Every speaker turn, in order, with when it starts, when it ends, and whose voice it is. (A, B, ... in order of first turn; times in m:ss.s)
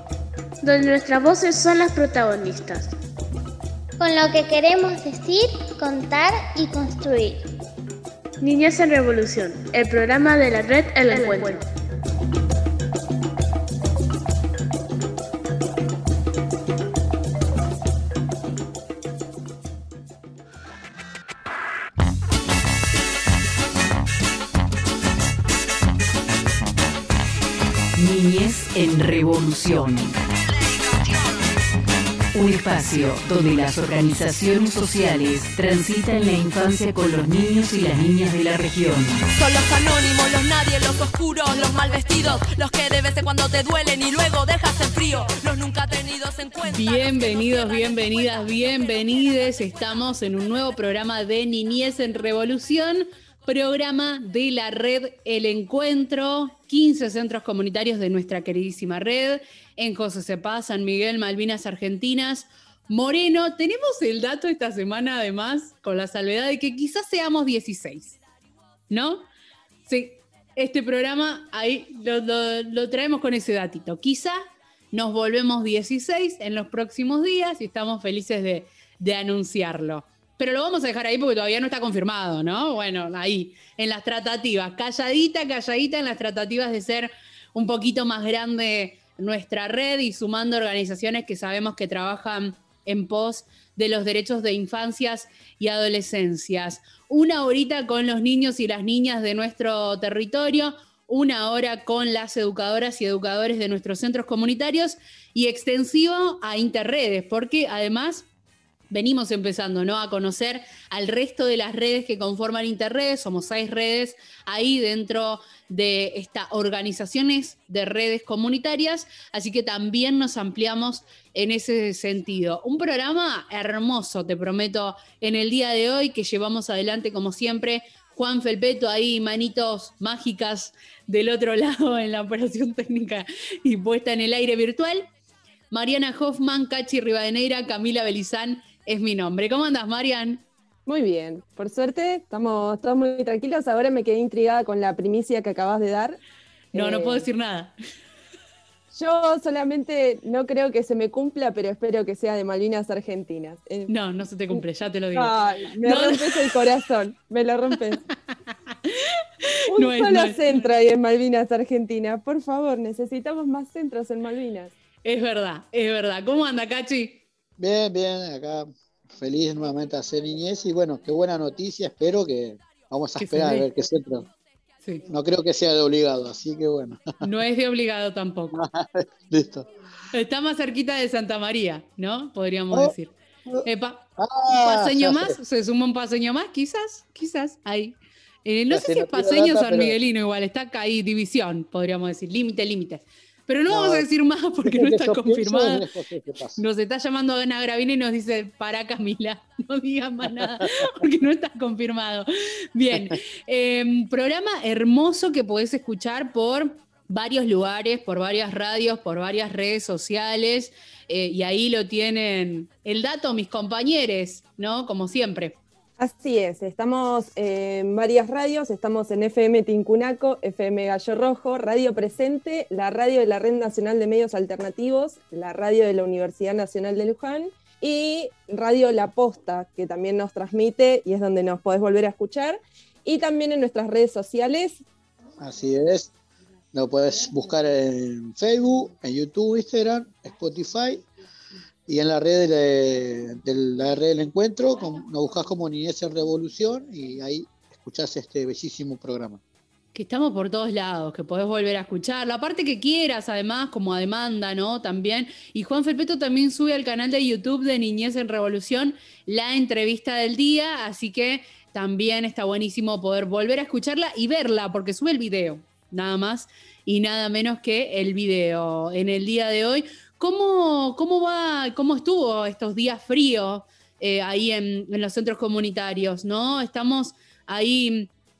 0:00.6-0:02.9 A
0:04.0-0:07.4 B
0:08.4-0:11.6 A
0:11.1-0:11.5 B
0:28.0-0:30.1 C
0:32.3-0:39.2 C
0:39.3-0:48.4 D
0:46.7-1:08.2 E
1:08.9-1:09.2 E
1:09.8-1:14.4 E
1:14.9-1:48.2 E
1:48.9-2:15.1 E
2:15.7-2:20.4 E
2:20.8-2:26.2 F
2:26.7-2:27.3 F
2:26.7-2:27.7 E
2:28.9-2:33.9 F
2:33.9-2:35.3 E
2:35.1-2:38.0 F
2:35.8-2:36.6 E
2:39.7-2:44.7 F
2:39.7-2:40.4 E
2:45.0-2:47.2 E
2:47.6-2:54.3 G
2:53.2-2:53.7 E
2:55.1-2:57.0 G
2:57.2-2:58.6 E
2:58.6-2:59.7 G
3:00.1-3:15.8 E
3:04.2-3:05.3 G
3:08.7-3:10.0 G
3:13.7-3:14.1 G
3:14.6-3:16.6 G
3:16.6-3:35.6 E
3:36.0-3:54.8 F
3:55.4-3:56.1 G
3:56.7-4:01.0 G
4:01.9-4:09.4 G
4:09.9-4:38.1 E